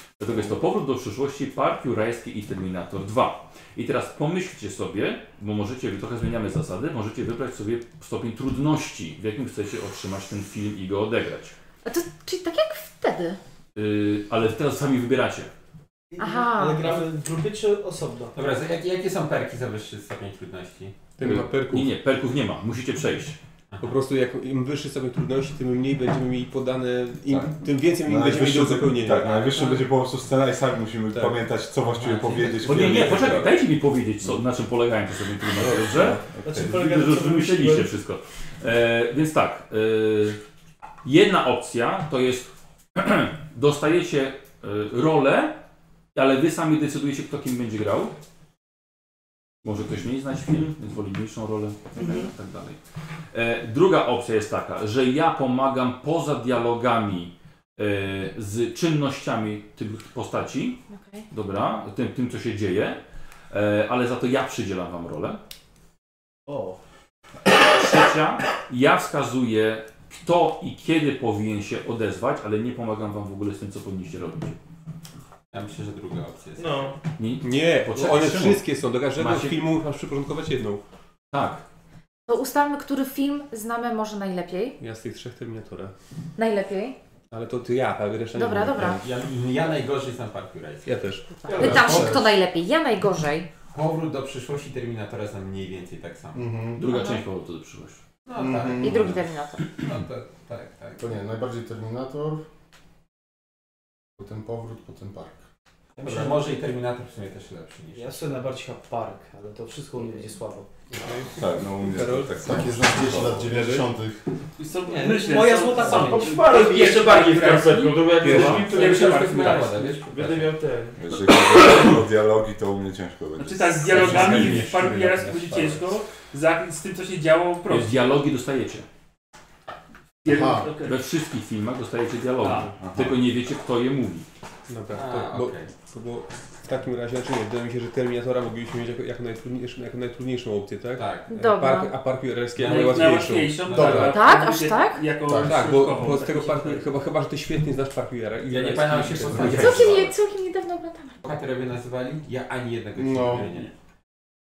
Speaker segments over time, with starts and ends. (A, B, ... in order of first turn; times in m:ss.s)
0:00.2-0:11.6 A
0:11.8-0:13.4 B
0:13.8-0:15.5 A
0:16.1-0:18.4 C
0:16.2-0:17.0 B
0:18.3-0:21.0 D
0:21.2-0:21.9 E
0:21.2-0:23.4 A
0:23.8-0:29.9 E
0:27.3-0:33.6 F
0:31.1-0:31.4 E
0:32.0-0:32.9 D
0:32.1-0:32.9 E
0:32.6-0:40.4 A
0:35.6-0:36.8 F
0:36.4-0:37.9 C
0:41.0-0:45.6 A
0:46.2-0:48.1 A
0:49.6-0:52.8 A
0:52.0-0:52.3 C
0:53.3-1:05.4 A
1:00.9-1:01.3 B
1:06.5-1:06.8 C
1:07.6-1:14.6 A
1:15.5-1:17.0 D
1:16.6-1:17.0 G
1:17.2-1:18.6 A
1:17.4-1:20.8 E
1:19.2-1:19.6 A
1:21.3-1:21.6 A
1:22.3-1:24.8 B
1:24.8-1:25.9 E
1:26.4-1:27.0 B
1:27.3-1:29.0 E
1:28.3-1:29.0 B
1:28.8-1:30.9 D
1:30.8-1:31.3 E
1:31.4-1:33.5 B
1:31.5-1:32.2 D
1:31.5-1:32.3 H
1:33.7-1:36.5 D
1:36.4-1:36.8 H
1:36.8-1:38.0 A
1:36.8-1:37.2 B
1:38.2-1:39.1 D
1:38.4-1:39.0 H
1:38.8-1:39.7 B
1:39.8-1:41.1 D
1:41.0-1:42.4 H
1:44.2-1:45.4 H
1:46.0-1:46.6 C
1:46.0-1:48.3 D
1:47.9-1:50.7 C
1:51.0-1:52.4 E
1:51.3-1:53.8 F
1:52.4-1:54.2 H
1:53.5-1:53.8 E
1:54.6-2:00.0 I
1:54.9-1:56.4 C
1:55.9-2:01.0 G
1:58.2-1:58.9 E
1:58.3-2:00.6 D
2:01.0-2:04.7 F
2:03.4-2:08.0 I
2:03.8-2:05.9 D
2:07.7-2:08.9 A
2:10.2-2:11.0 I
2:10.3-2:10.7 H
2:10.8-2:14.3 A
2:12.4-2:12.7 I
2:12.8-2:13.2 F
2:14.7-2:24.2 E
2:14.9-2:15.7 D
2:21.0-2:21.3 D
2:21.3-2:22.0 B
2:22.6-2:22.9 D
2:22.6-2:26.8 I
2:23.6-2:24.2 D
2:24.0-2:25.1 B
2:25.3-2:25.6 H
2:25.4-2:29.9 E
2:28.5-2:30.1 D
2:29.4-2:31.2 B
2:31.2-2:33.7 D
2:33.0-2:33.4 H
2:33.4-2:33.7 I